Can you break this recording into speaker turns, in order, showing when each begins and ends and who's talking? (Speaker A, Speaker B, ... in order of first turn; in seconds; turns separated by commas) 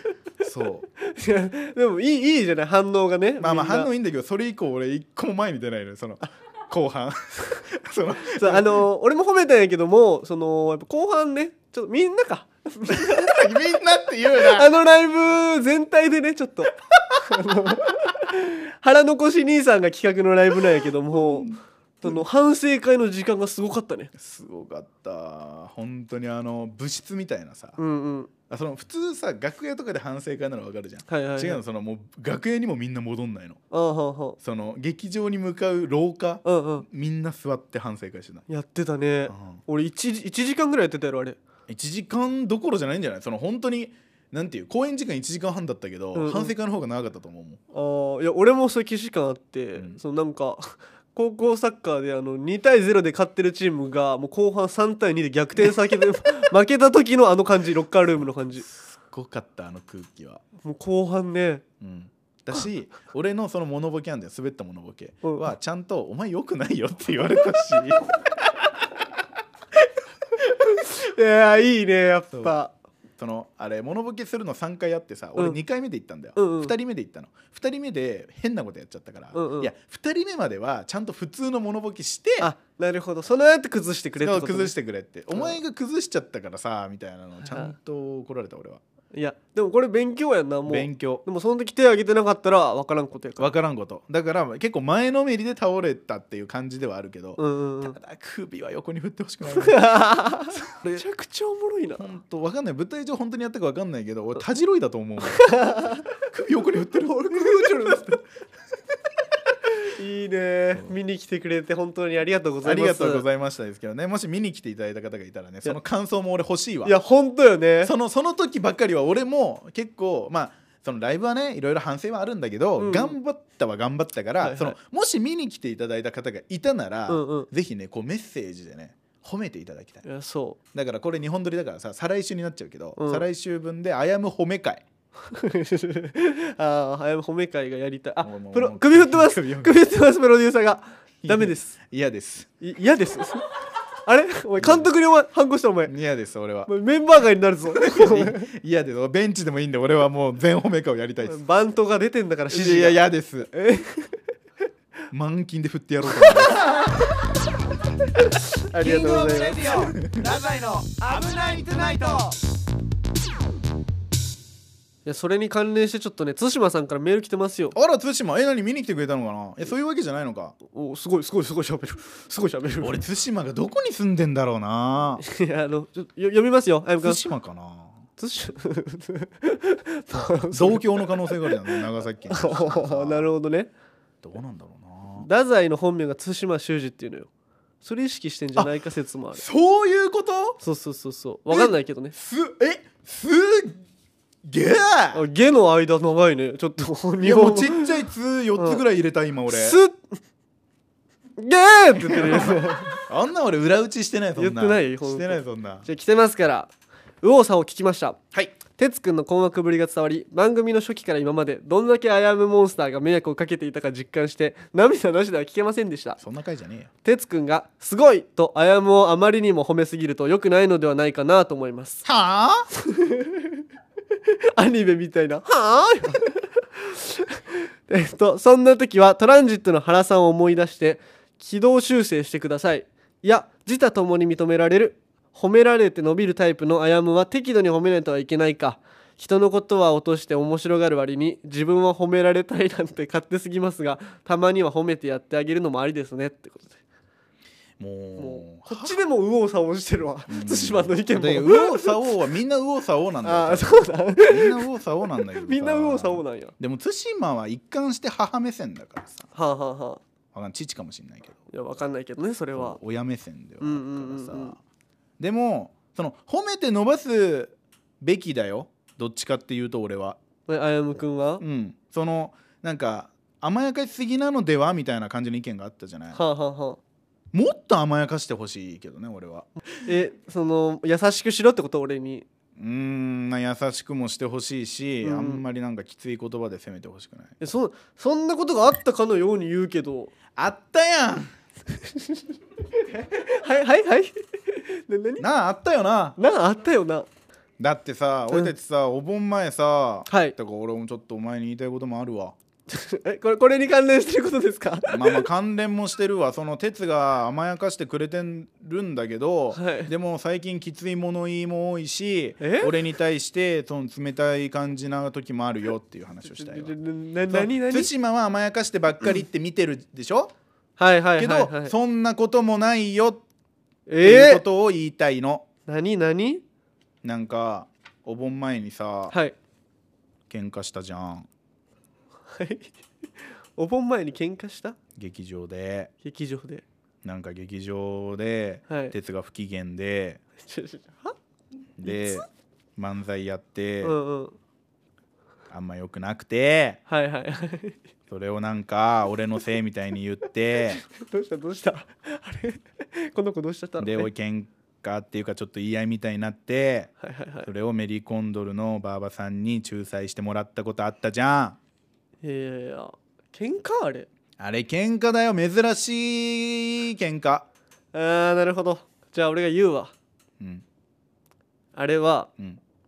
Speaker A: 0.4-0.9, Speaker B: 1.0-3.9, Speaker A: 3.4-8.8, Speaker B: 8.3-13.5, Speaker A: 12.9-14.7, Speaker B: 14.4-21.5, Speaker A: 21.1-22.2, Speaker B: 22.0-24.1, Speaker A: 24.1-27.8, Speaker B: 27.8-28.3, Speaker A: 28.5-33.6, Speaker B: 31.1-31.6, Speaker B: 33.7-34.4, Speaker A: 34.4-38.5, Speaker B: 36.4-36.9, Speaker B: 38.5-41.4, Speaker A: 39.3-39.6, Speaker A: 41.7-47.6, Speaker B: 46.1-46.5, Speaker B: 47.7-58.7, Speaker A: 58.7-60.4, Speaker B: 60.6-61.6, Speaker A: 61.8-68.9, Speaker B: 65.2-65.5, Speaker A: 70.4-70.7, Speaker B: 70.6-72.7, Speaker A: 73.2-82.5, Speaker B: 76.4-76.7, Speaker B: 79.3-79.7, Speaker B: 82.4-84.7, Speaker A: 84.2-88.8, Speaker B: 85.3-85.6, Speaker B: 89.1-93.5, Speaker A: 90.7-91.2, Speaker A: 93.4-100.0, Speaker B: 97.4-98.0, Speaker B: 99.5-102.1, Speaker A: 100.5-101.0, Speaker A: 102.0-108.2, Speaker B: 105.3-106.1, Speaker B: 107.0-108.2, Speaker B: 109.8-113.2, Speaker A: 112.6-117.0, Speaker B: 116.8-117.9, Speaker A: 117.8-130.0, Speaker B: 122.8-123.2, Speaker B: 124.4-124.8, Speaker B: 127.1-127.5, Speaker B: 130.0-130.6, Speaker A: 130.7-134.8, Speaker B: 133.0-133.2, Speaker B: 135.3-141.8, Speaker A: 138.2-139.8, Speaker A: 141.2-142.5, Speaker B: 142.6-143.5, Speaker B: 144.1-145.9, Speaker A: 144.6-144.9, Speaker A: 145.9-146.7, Speaker B: 146.7-148.5, Speaker A: 147.7-151.4, Speaker B: 151.2-154.2, Speaker A: 152.5-153.5, Speaker A: 155.1-156.7, Speaker B: 158.7-159.8, Speaker C: 158.8-162.4, Speaker A: 159.9-160.2, Speaker B: 165.1-167.8, Speaker A: 167.7-170.6, Speaker B: 170.7-173.0, Speaker A: 172.8-175.2, Speaker B: 175.2-177.2, Speaker A: 177.0-178.0, Speaker B: 178.2-183.7, Speaker A: 180.5-183.3, Speaker A: 184.2-185.3, Speaker B: 185.2-187.3, Speaker B: 187.8-189.4, Speaker A: 189.3-190.6, Speaker B: 190.6-192.2, Speaker A: 191.5-193.8, Speaker A: 194.4-195.2, Speaker B: 195.1-198.0, Speaker A: 197.2-199.8, Speaker B: 199.5-200.2, Speaker B: 201.4-203.0, Speaker A: 202.0-205.9, Speaker B: 204.4-208.2, Speaker B: 208.7-216.2, Speaker A: 216.2-216.9, Speaker B: 217.0-222.1, Speaker A: 222.1-222.7, Speaker B: 222.8-223.6, Speaker B: 224.3-246.8, Speaker A: 247.8-249.0, Speaker B: 248.2-252.0, Speaker A: 250.3-259.3, Speaker B: 253.2-254.6, Speaker B: 255.4-256.5, Speaker B: 259.3-260.0, Speaker A: 260.3-261.4, Speaker B: 261.5-262.8, Speaker A: 262.5-264.6, Speaker B: 263.6-264.6, Speaker A: 265.2-270.2, Speaker B: 270.5-271.4, Speaker A: 271.4-276.2, Speaker B: 276.1-276.8, Speaker A: 277.3-279.5, Speaker B: 279.8-282.3, Speaker A: 282.6-287.4, Speaker B: 285.0-285.4, Speaker B: 287.4-290.1, Speaker A: 290.4-291.3, Speaker B: 292.8-295.2, Speaker A: 295.2-296.2, Speaker B: 296.2-297.1, Speaker A: 297.6-302.4, Speaker B: 300.1-300.4, Speaker B: 302.7-305.3, Speaker A: 304.9-316.7, Speaker B: 309.5-309.9, Speaker B: 312.4-312.8, Speaker B: 316.3-317.9, Speaker A: 317.3-320.3, Speaker B: 320.8-321.7, Speaker A: 321.2-323.2, Speaker B: 323.9-324.4, Speaker A: 324.0-325.5, Speaker B: 325.7-326.4, Speaker A: 327.0-329.1, Speaker A: 330.3-331.3, Speaker B: 332.3-332.7, Speaker B: 333.6-334.8, Speaker A: 335.0-335.9, Speaker B: 336.0-336.6, Speaker A: 337.0-340.2, Speaker B: 338.7-338.9, Speaker B: 340.4-341.2, Speaker A: 341.8-342.2, Speaker B: 341.9-342.2, Speaker A: 342.8-344.0, Speaker B: 343.8-344.4, Speaker A: 345.5-346.8, Speaker B: 346.9-347.8, Speaker A: 348.1-350.8, Speaker B: 350.8-354.1, Speaker A: 353.8-356.9, Speaker B: 357.0-357.5, Speaker A: 357.4-361.6, Speaker B: 362.2-364.1, Speaker A: 364.4-367.5, Speaker B: 367.9-369.9, Speaker B: 371.8-372.3